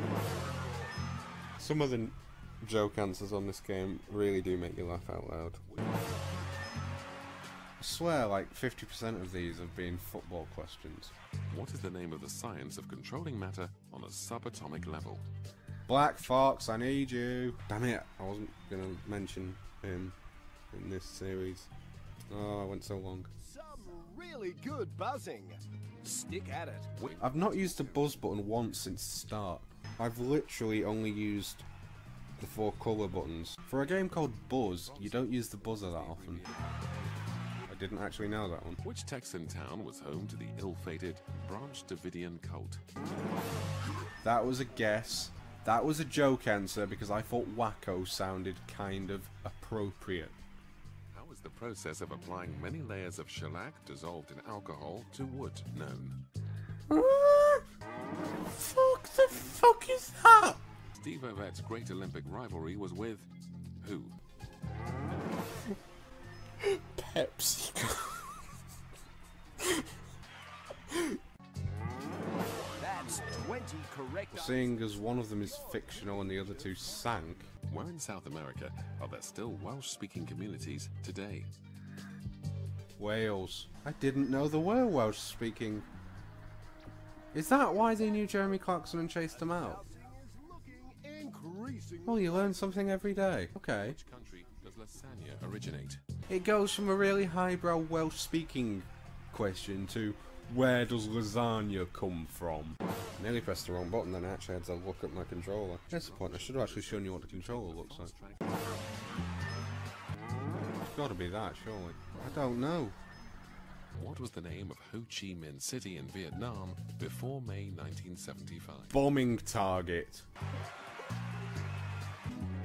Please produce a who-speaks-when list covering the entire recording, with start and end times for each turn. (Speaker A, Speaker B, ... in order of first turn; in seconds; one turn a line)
Speaker A: 1.6-5.6
Speaker A: 7.8-11.1
Speaker B: 11.5-15.2
Speaker A: 15.9-20.2
Speaker A: 20.7-21.7
Speaker A: 22.3-23.3
Speaker C: 23.4-26.9
Speaker B: 26.9-28.2
Speaker A: 27.2-31.7
Speaker A: 32.4-36.4
Speaker B: 34.6-37.2
Speaker A: 37.7-38.8
Speaker B: 38.8-42.8
Speaker A: 44.2-50.4
Speaker B: 51.1-56.2
Speaker A: 56.9-57.6
Speaker A: 58.5-60.6
Speaker B: 60.9-64.2
Speaker A: 66.6-68.4
Speaker A: 70.9-71.2
Speaker C: 72.8-77.4
Speaker A: 74.3-77.5
Speaker B: 77.7-81.5
Speaker A: 83.0-85.9
Speaker A: 87.3-89.8
Speaker C: 89.3-92.4
Speaker A: 92.0-94.0
Speaker B: 93.8-96.0
Speaker A: 96.3-108.1
Speaker B: 105.9-108.8
Speaker A: 110.8-113.0
Speaker B: 113.9-118.9
Speaker A: 118.9-120.3